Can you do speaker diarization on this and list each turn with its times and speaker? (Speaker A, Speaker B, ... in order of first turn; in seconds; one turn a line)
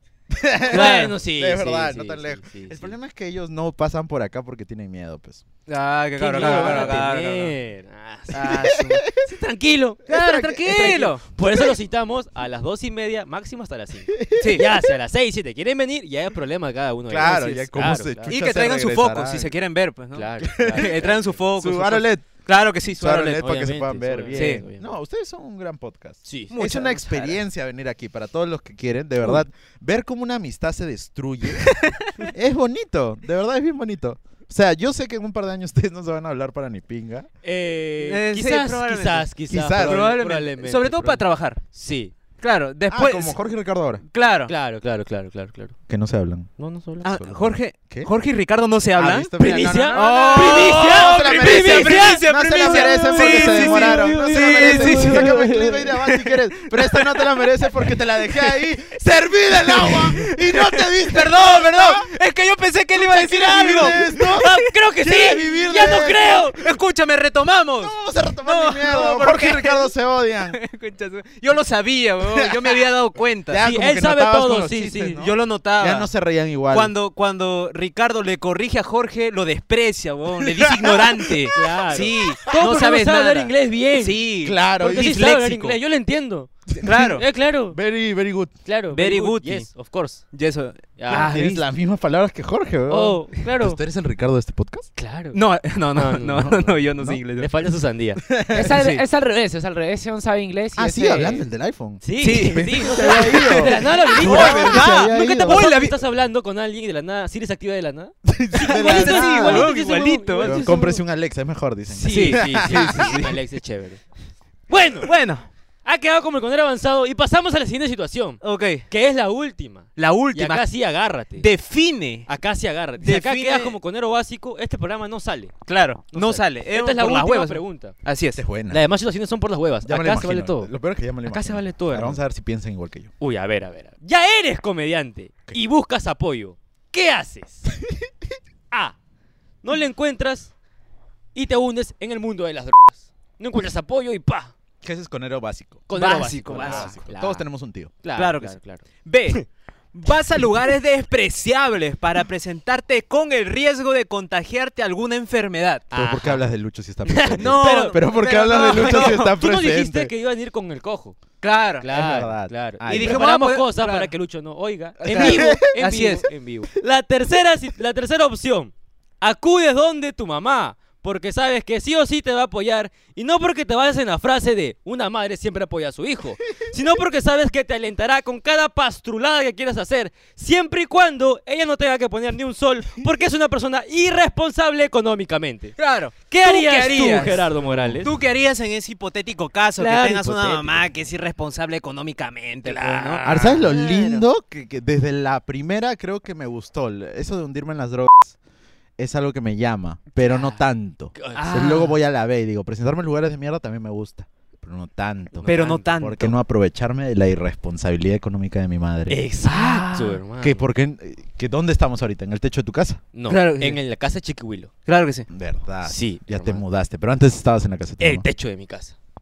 Speaker A: 0.3-5.4
Speaker B: 0.7-2.9
Speaker C: 0.7-1.1
Speaker C: 5.7-7.5
Speaker B: 6.2-10.0
Speaker A: 6.4-7.0
Speaker C: 8.3-9.1
Speaker A: 8.5-9.2
Speaker A: 10.1-11.1
Speaker C: 10.1-11.2
Speaker B: 10.7-18.3
Speaker A: 14.1-14.8
Speaker C: 14.4-14.7
Speaker A: 17.1-19.5
Speaker C: 18.3-23.5
Speaker B: 20.1-21.4
Speaker A: 20.4-22.3
Speaker A: 22.9-37.3
Speaker B: 23.3-25.0
Speaker C: 24.3-24.6
Speaker B: 26.2-26.6
Speaker C: 26.5-27.4
Speaker C: 31.6-32.1
Speaker B: 37.4-42.1
Speaker C: 38.0-41.6
Speaker A: 39.5-40.1
Speaker C: 42.4-43.4
Speaker A: 42.9-44.0
Speaker C: 44.1-44.5
Speaker B: 44.5-45.8
Speaker A: 45.9-48.1
Speaker B: 46.6-47.2
Speaker C: 47.0-49.3
Speaker A: 49.0-62.1
Speaker B: 49.4-55.9
Speaker C: 49.9-55.5
Speaker C: 56.0-57.3
Speaker C: 59.7-64.6
Speaker A: 62.9-66.5
Speaker B: 63.6-66.6
Speaker C: 66.6-69.9
Speaker A: 67.8-70.6
Speaker C: 70.5-73.6
Speaker A: 72.3-72.9
Speaker A: 73.5-76.9
Speaker B: 73.6-75.2
Speaker C: 75.2-76.1
Speaker C: 76.7-85.8
Speaker A: 80.4-81.5
Speaker B: 81.5-87.8
Speaker A: 84.4-85.2
Speaker C: 86.8-87.2
Speaker A: 87.7-88.5
Speaker B: 88.7-90.2
Speaker C: 88.9-89.7
Speaker C: 90.3-91.6
Speaker B: 91.0-91.3
Speaker A: 91.1-94.9
Speaker B: 92.9-93.8
Speaker B: 95.0-95.4
Speaker C: 95.3-97.5
Speaker B: 95.9-98.2
Speaker A: 98.2-98.7
Speaker D: 98.5-101.4
Speaker C: 98.7-99.0
Speaker A: 100.7-105.7
Speaker B: 102.0-111.0
Speaker C: 102.2-106.0
Speaker A: 108.2-109.7
Speaker C: 108.6-110.7
Speaker A: 110.4-113.2
Speaker B: 111.9-114.0
Speaker C: 112.1-113.4
Speaker B: 114.7-115.1
Speaker C: 115.0-115.5
Speaker B: 115.8-121.5
Speaker C: 118.4-118.9
Speaker C: 120.0-122.3
Speaker B: 122.3-125.5
Speaker C: 123.0-123.8
Speaker C: 125.7-128.4
Speaker B: 126.1-128.0
Speaker A: 128.3-128.8
Speaker B: 128.7-130.7
Speaker A: 129.8-133.1
Speaker B: 131.2-132.2
Speaker B: 133.2-137.7
Speaker B: 138.7-138.9
Speaker B: 139.6-140.5
Speaker B: 141.3-144.5
Speaker A: 144.8-145.8
Speaker B: 145.9-147.4
Speaker C: 145.9-146.9
Speaker A: 146.5-147.9
Speaker B: 148.0-149.4
Speaker C: 148.1-155.9
Speaker B: 155.9-156.5
Speaker A: 155.9-160.1
Speaker B: 157.0-161.2
Speaker C: 157.4-159.3
Speaker C: 161.4-161.9
Speaker B: 161.8-188.1
Speaker A: 161.9-163.3
Speaker C: 162.9-164.1
Speaker A: 165.0-165.7
Speaker C: 165.1-166.3
Speaker C: 185.8-194.2
Speaker A: 187.7-188.0
Speaker B: 189.8-190.8
Speaker B: 192.6-193.7
Speaker A: 193.2-198.4
Speaker A: 199.0-209.2
Speaker B: 200.2-200.6
Speaker B: 201.2-201.9
Speaker C: 201.3-201.9
Speaker B: 205.3-205.8
Speaker C: 205.4-206.3
Speaker B: 209.1-210.7
Speaker C: 209.4-210.2
Speaker A: 210.4-213.0
Speaker B: 213.1-214.7
Speaker C: 213.3-213.8
Speaker C: 214.8-215.3
Speaker A: 215.3-218.3
Speaker B: 215.8-216.6
Speaker B: 218.0-218.9